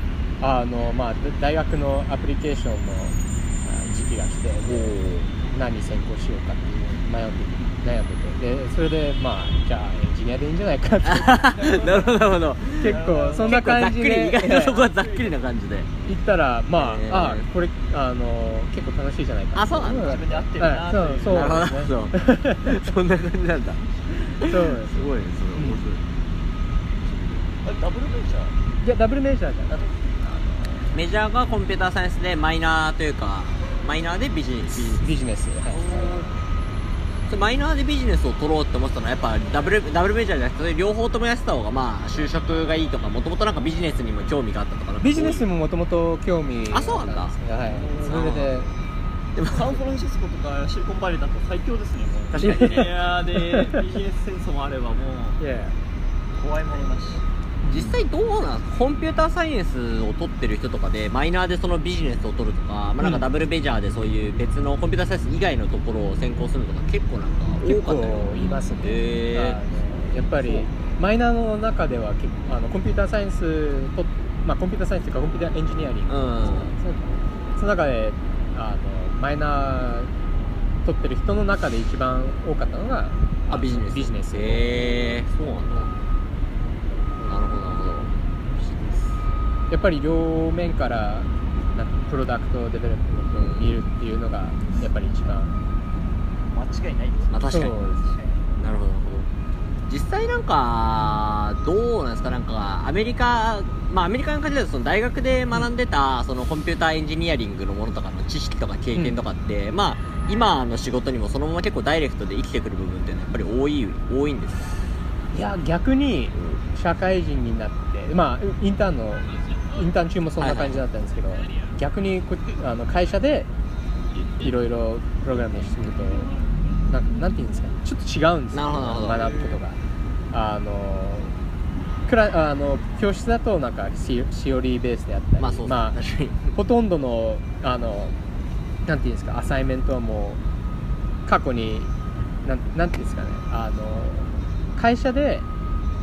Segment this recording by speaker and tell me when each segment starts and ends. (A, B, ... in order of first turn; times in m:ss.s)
0:00.4-0:11.5 A
0:04.6-0:05.3 B
0:11.0-0:15.9 B
0:11.4-0:13.7 C
0:12.8-0:14.9 A
0:14.6-0:15.4 C
0:16.0-0:22.8 A
0:16.8-0:17.5 B
0:19.6-0:20.3 B
0:19.9-0:21.7 C
0:21.3-0:26.0 B
0:24.4-0:25.8 A
0:27.1-0:27.5 B
0:27.6-0:28.6 C
0:28.8-0:31.0 A
0:30.9-0:35.0 B
0:34.7-0:36.3 A
0:35.8-0:36.3 C
0:37.3-0:45.5 B
0:45.0-0:48.7 A
0:46.7-0:47.4 B
0:47.6-0:48.2 C
0:48.0-0:48.5 B
0:49.4-0:49.8 B
0:49.5-0:55.4 C
0:52.3-0:53.0 B
0:52.4-0:53.8 A
0:55.4-0:55.8 A
0:56.4-0:57.2 C
0:57.6-0:58.0 A
0:57.7-1:09.6 B
1:03.0-1:03.3 A
1:07.6-1:20.1 A
1:10.4-1:10.7 B
1:16.1-1:16.7 B
1:20.8-1:25.0 A
1:23.5-1:25.9 B
1:25.4-1:25.9 C
1:27.2-1:27.8 A
1:27.3-1:28.1 B
1:28.7-1:29.0 A
1:29.7-1:35.5 A
1:33.4-1:33.8 B
1:36.5-1:38.4 C
1:37.3-1:37.8 B
1:37.5-1:38.1 A
1:38.6-1:39.3 B
1:39.9-1:54.8 B
1:55.3-2:03.5 A
2:00.4-2:00.8 B
2:04.4-2:06.4 A
2:06.9-2:09.8 A
2:08.5-2:09.6 B
2:10.3-2:11.4 A
2:12.1-2:16.0 A
2:15.4-2:16.5 B
2:16.5-2:18.2 A
2:18.9-2:20.4 A
2:21.3-2:21.9 A
2:22.4-2:25.5 A